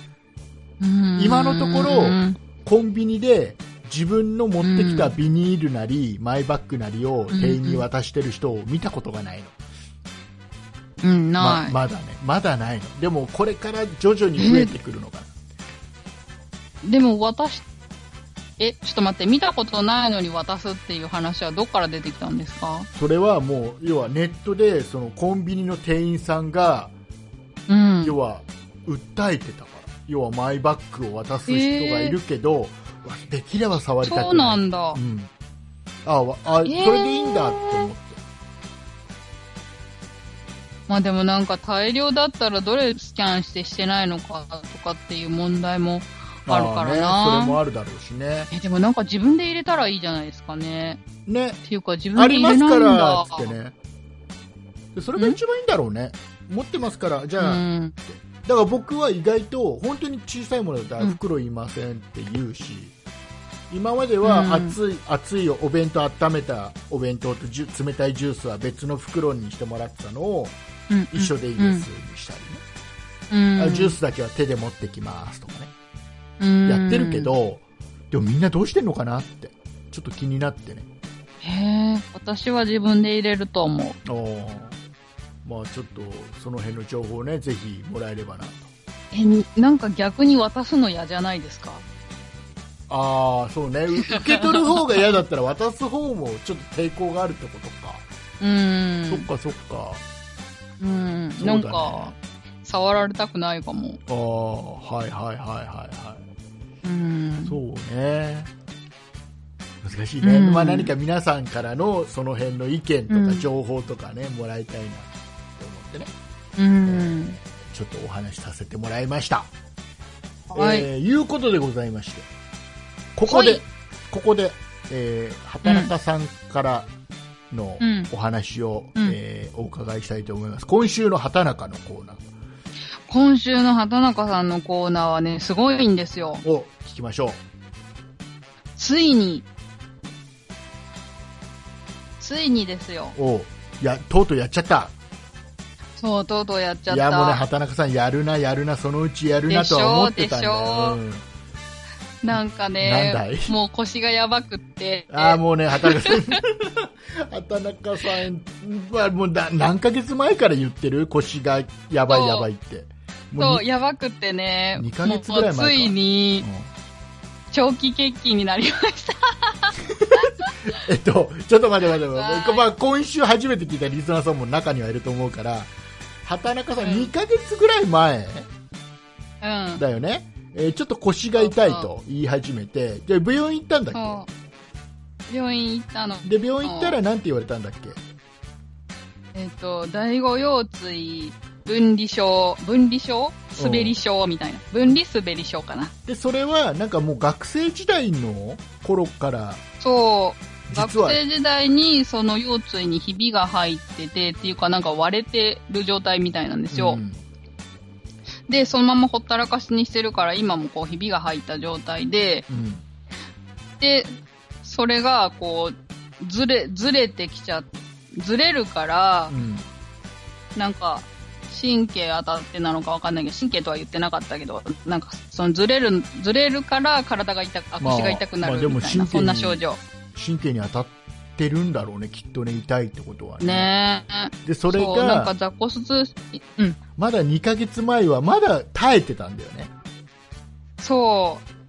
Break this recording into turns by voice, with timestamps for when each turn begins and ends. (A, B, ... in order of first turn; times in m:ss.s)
0:00.8-0:02.4 A
0:01.2-0:09.5 B
0:04.6-0:05.1 A
0:07.3-0:07.8 A
0:11.0-0:11.8 A
0:11.4-0:15.3 B
0:14.4-0:14.7 A
0:16.8-0:17.6 A
0:18.6-0:22.9 A
0:22.9-0:26.9 B
0:27.7-0:28.2 A
0:28.0-0:35.3 B
0:31.5-0:32.2 A
0:34.0-0:35.0 A
0:36.0-0:38.2 B
0:36.6-0:37.9 A
0:40.9-0:47.6 A
0:46.4-0:48.5 B
0:48.5-0:51.0 A
0:51.3-0:51.6 B
0:51.6-0:53.5 A
0:52.1-0:53.7 B
0:54.9-1:02.9 B
0:57.4-0:57.9 A
1:03.7-1:10.5 B
1:04.2-1:04.8 A
1:10.9-1:11.8 A
1:11.1-1:12.6 B
1:13.3-1:14.0 A
1:13.6-1:15.7 B
1:16.4-1:17.3 A
1:16.6-1:20.9 B
1:21.4-1:24.0 A
1:24.0-1:24.8 B
1:25.4-1:28.7 B
1:29.1-1:31.8 A
1:32.9-1:38.1 B
1:34.1-1:35.1 A
1:38.4-1:39.3 A
1:39.1-1:40.0 B
1:40.8-1:44.0 A
1:41.4-1:42.2 B
1:44.1-1:46.2 B
1:46.8-1:47.6 A
1:47.4-1:48.5 B
1:49.8-1:56.1 B
1:50.2-1:50.9 A
1:53.1-1:53.5 A
1:56.6-1:57.4 A
1:56.8-1:59.5 B
2:00.5-2:00.9 A
2:00.5-2:02.3 B
2:03.2-2:06.9 B
2:03.3-2:03.6 A
2:05.6-2:05.9 A
2:07.5-2:12.2 B
2:07.8-2:08.1 A
2:13.1-2:16.4 A
2:16.4-2:17.4 B
2:18.8-2:19.4 A
2:22.2-2:23.2 A
2:23.1-2:24.9 B
2:26.0-2:27.4 A
2:26.9-2:31.2 B
2:29.5-2:31.0 A
2:32.2-2:36.3 A
2:32.3-2:33.5 B
2:35.1-2:43.6 B
2:42.1-2:42.5 A
2:43.4-2:46.4 A
2:44.8-2:46.7 B
2:47.5-2:50.5 A
2:49.8-2:55.7 B
2:52.1-2:52.6 A
2:56.2-2:58.5 B
2:56.8-2:57.1 A
2:59.4-2:59.8 A
2:59.8-3:04.2 B
3:01.4-3:01.9 A
3:03.9-3:04.3 A
3:05.3-3:07.0 A
3:06.2-3:08.0 B
3:09.3-3:15.9 A
3:13.6-3:14.0 B
3:16.0-3:19.6 B
3:19.8-3:27.0 A
3:20.7-3:21.2 B
3:26.7-3:27.2 B
3:28.5-3:32.4 A
3:32.5-3:32.8 B
3:33.8-3:39.3 A
3:39.3-3:39.7 B
3:40.5-3:49.8 A
3:47.8-3:49.6 B
3:50.1-3:53.7 B
3:53.4-3:56.8 A
3:54.4-3:55.3 B
3:57.0-3:59.7 B
4:00.8-4:01.4 A